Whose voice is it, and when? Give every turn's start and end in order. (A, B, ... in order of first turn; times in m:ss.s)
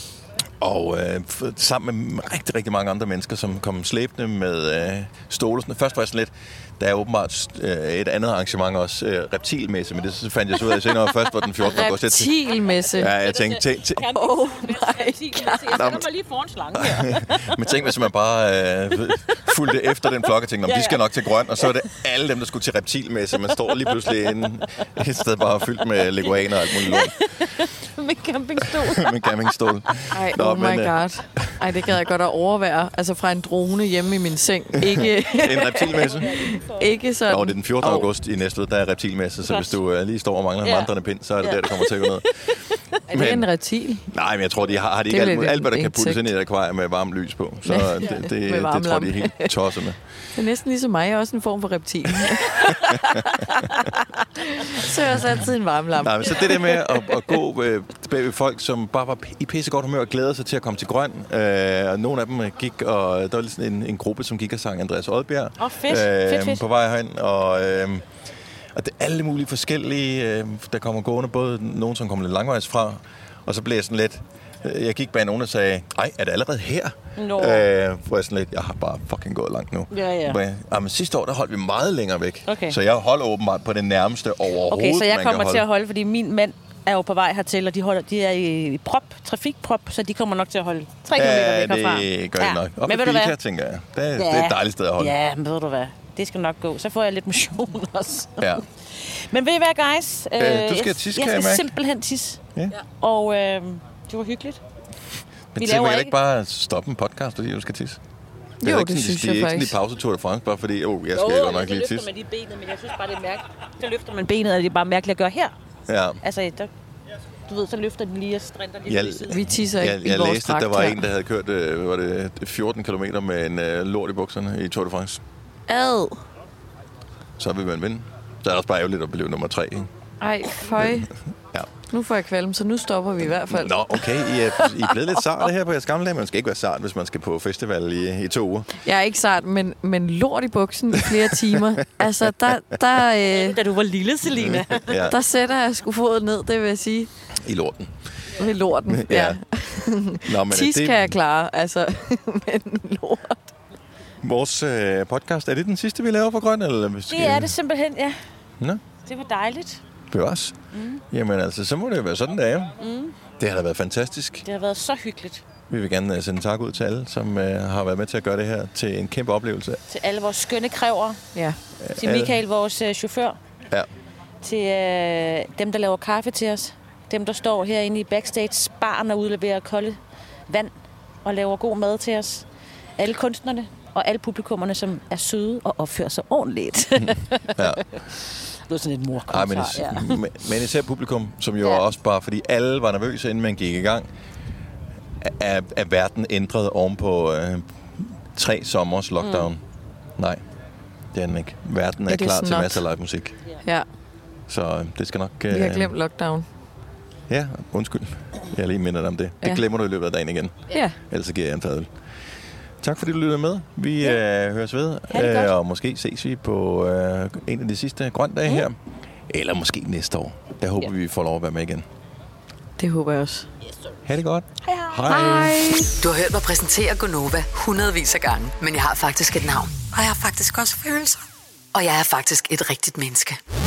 0:00.6-0:14.1 A
0:11.6-0:13.1 B
0:13.0-0:17.7 C
0:14.1-0:16.0 B
0:15.7-0:16.0 A
0:16.7-0:27.2 A
0:19.1-0:19.5 C
0:20.0-0:21.8 C
0:23.5-0:24.6 C
0:26.0-0:30.0 C
0:28.6-0:31.6 A
0:30.1-0:38.1 B
0:34.8-0:36.3 A
0:35.9-0:37.0 C
0:37.3-0:42.5 A
0:40.6-0:42.7 C
0:43.1-0:43.5 A
0:43.1-0:44.0 B
0:44.1-0:50.0 A
0:45.0-0:46.3 B
0:47.6-0:49.5 B
0:50.3-0:57.2 B
0:52.3-0:53.3 A
0:56.0-1:08.0 A
1:05.6-1:06.6 C
1:08.7-1:25.6 A
1:17.2-1:17.7 C
1:19.9-1:20.4 C
1:22.5-1:22.8 C
1:24.7-1:33.3 C
1:31.1-1:35.2 A
1:34.2-1:44.6 C
1:40.4-1:41.7 A
1:45.5-1:48.0 A
1:45.6-1:46.2 C
1:48.6-1:49.7 B
1:48.6-1:52.1 A
1:51.1-1:55.5 C
1:55.9-1:56.2 A
1:56.2-1:56.7 C
1:57.5-1:59.4 C
1:58.8-2:05.2 A
1:59.3-2:01.0 B
2:05.7-2:06.2 B
2:07.4-2:09.9 A
2:10.2-2:11.1 B
2:10.8-2:11.7 A
2:11.9-2:14.9 B
2:13.5-2:18.7 A
2:18.8-2:23.6 B
2:21.4-2:22.2 A
2:23.3-2:25.1 C
2:24.4-2:25.2 A
2:25.0-2:27.1 B
2:27.4-2:27.9 A
2:28.4-2:33.5 B
2:28.8-2:31.1 A
2:34.2-2:37.6 A
2:37.1-2:38.2 C
2:39.0-2:39.8 C
2:40.1-2:40.6 A
2:40.7-2:41.0 C
2:41.1-2:42.8 A
2:42.8-2:43.2 C
2:43.4-2:44.5 A
2:44.4-2:45.4 C
2:45.7-2:49.8 A
2:49.9-2:51.2 C
2:51.8-2:52.4 A
2:52.0-2:53.4 C
2:54.4-3:00.0 C
3:01.2-3:02.4 C
3:03.0-3:10.2 C
3:07.5-3:07.8 A
3:09.3-3:14.1 A
3:15.2-3:19.6 A
3:19.2-3:19.5 C
3:21.1-3:23.4 A
3:22.1-3:22.8 B
3:24.5-3:25.9 A
3:25.5-3:26.5 B
3:27.3-3:31.9 A
3:30.7-3:31.0 B
3:32.8-3:38.8 A
3:35.1-3:35.5 C
3:39.3-3:41.8 A
3:42.8-3:43.5 B
3:44.0-3:45.6 A
3:44.6-3:45.7 C
3:45.1-3:45.9 B
3:45.9-3:51.2 D
3:51.7-3:53.4 D